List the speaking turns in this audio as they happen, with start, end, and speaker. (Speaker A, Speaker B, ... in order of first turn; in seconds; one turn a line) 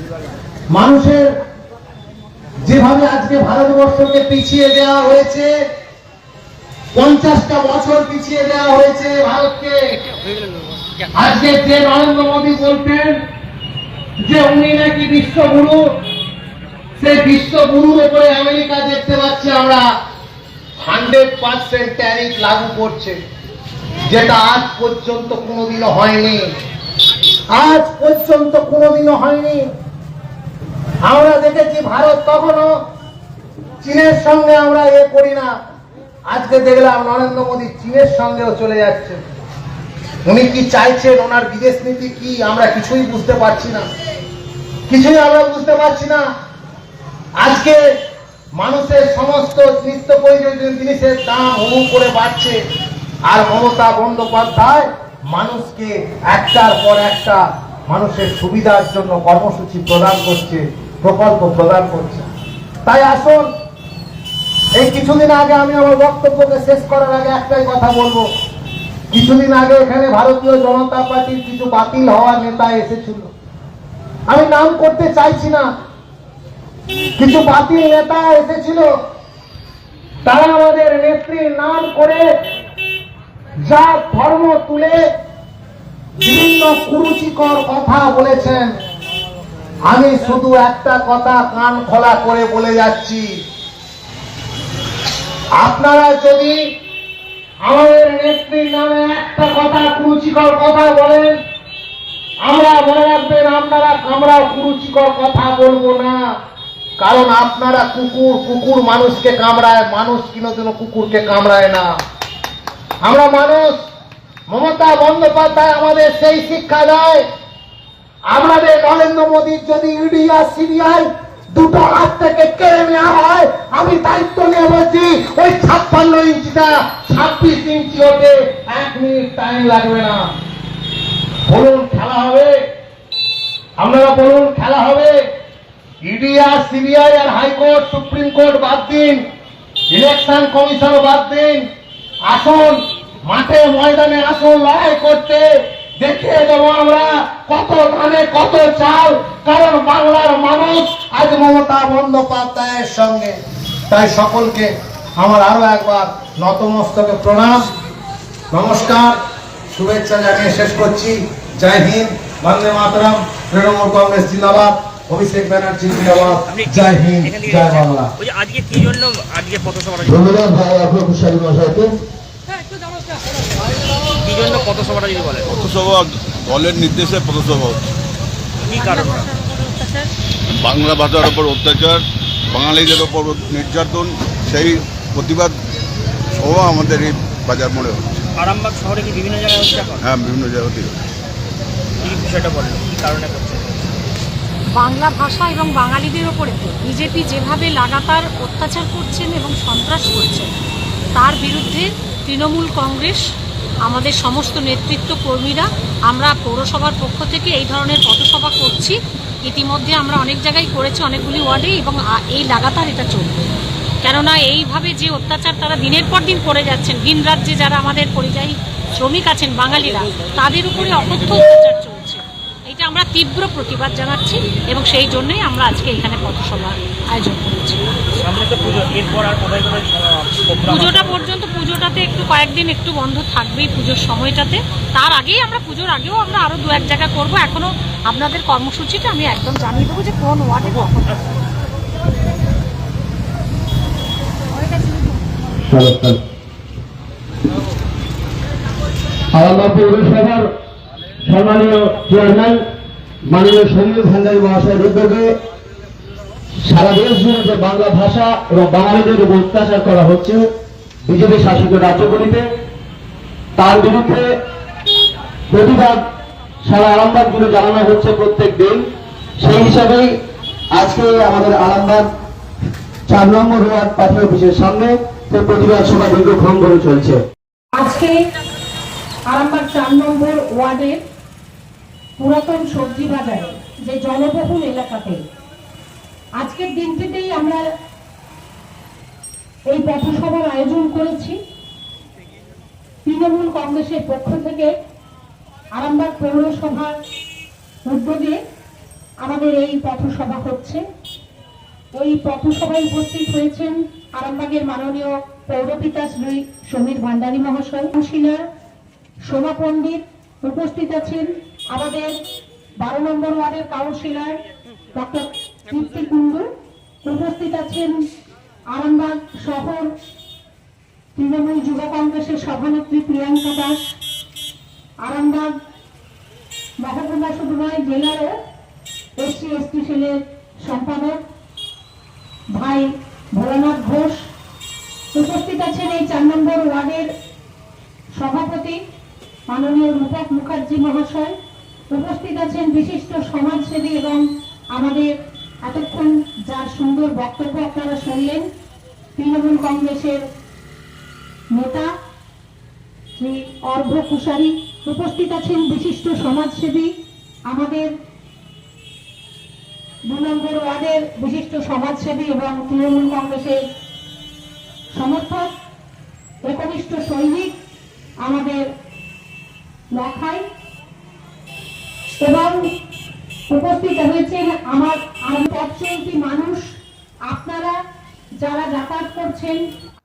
Speaker A: 0.7-1.3
Speaker A: 2.6-5.5
Speaker A: 7.0-10.0
Speaker A: 11.2-13.2
Speaker A: 14.2-15.8
Speaker A: 17.0-19.9
Speaker A: 20.9-23.2
Speaker A: 24.1-26.5
Speaker A: 27.5-29.7
Speaker A: 31.0-32.7
Speaker A: 33.8-35.5
Speaker A: 36.3-39.2
Speaker A: 40.3-43.9
Speaker A: 44.9-46.2
Speaker A: 47.4-47.8
Speaker A: 48.6-52.6
Speaker A: 53.3-62.3
Speaker A: 62.9-63.5
Speaker A: 64.8-68.3
Speaker A: 69.1-73.3
Speaker A: 74.3-75.7
Speaker A: 77.2-78.9
Speaker A: 80.2-82.2
Speaker A: 83.7-85.0
Speaker A: 86.2-88.7
Speaker A: 89.9-93.3
Speaker A: 95.6-96.6
Speaker A: 97.6-101.4
Speaker A: 102.4-106.2
Speaker A: 107.0-111.9
Speaker A: 113.0-113.8
Speaker A: 114.5-117.2
Speaker A: 118.3-130.3
Speaker A: 131.5-132.6
Speaker A: 133.8-135.2
Speaker A: 136.1-139.2
Speaker A: 139.9-141.7
Speaker A: 142.3-145.5
Speaker A: 146.0-153.4
Speaker A: 153.9-157.7
Speaker A: 158.5-159.2
Speaker A: 159.7-168.1
Speaker B: 166.5-170.2
Speaker C: 170.1-171.9
Speaker B: 174.2-175.6
Speaker D: 175.5-177.8
Speaker B: 178.7-179.3
Speaker E: 178.8-180.1
Speaker D: 180.6-185.5
Speaker D: 186.4-188.1
Speaker B: 188.4-190.1
Speaker D: 190.1-191.0
Speaker B: 192.0-193.7
Speaker E: 194.8-200.5
Speaker E: 201.2-203.2
Speaker E: 203.9-213.5
Speaker E: 214.0-227.8
Speaker B: 228.2-231.2
Speaker E: 230.7-241.2
Speaker C: 245.7-246.2
Speaker C: 249.3-250.5
Speaker C: 251.2-252.6
Speaker C: 253.3-255.3
Speaker C: 256.6-260.5
Speaker C: 261.1-262.5
Speaker C: 263.6-264.3
Speaker C: 265.5-266.0
Speaker C: 266.6-268.8
Speaker C: 269.4-270.1
Speaker C: 270.7-272.1
Speaker C: 273.1-277.2
Speaker F: 277.8-278.1
Speaker F: 279.3-281.0
Speaker F: 282.2-285.2
Speaker F: 286.4-287.6
Speaker F: 289.7-291.4
Speaker F: 293.1-294.7
Speaker F: 295.8-297.0
Speaker F: 297.9-298.4
Speaker F: 299.2-300.8
Speaker F: 301.9-308.4
Speaker F: 309.3-312.1
Speaker F: 312.8-314.4
Speaker F: 314.9-316.5
Speaker F: 317.1-317.9
Speaker F: 318.7-319.9
Speaker F: 321.2-323.8
Speaker F: 325.0-325.5
Speaker F: 326.8-328.3
Speaker F: 329.2-331.2
Speaker F: 332.6-334.2
Speaker F: 335.1-337.1
Speaker F: 338.2-338.8
Speaker F: 339.5-341.3
Speaker F: 341.9-344.2
Speaker F: 344.8-345.1
Speaker F: 345.6-348.4
Speaker F: 349.2-350.2
Speaker F: 351.6-351.9
Speaker F: 353.2-356.9
Speaker F: 357.5-357.9
Speaker F: 360.1-363.6
Speaker F: 365.0-365.5
Speaker F: 366.5-367.6
Speaker F: 368.2-368.7
Speaker F: 369.9-370.4
Speaker F: 372.2-372.6
Speaker F: 373.5-376.6
Speaker F: 377.3-377.8
Speaker F: 378.4-379.6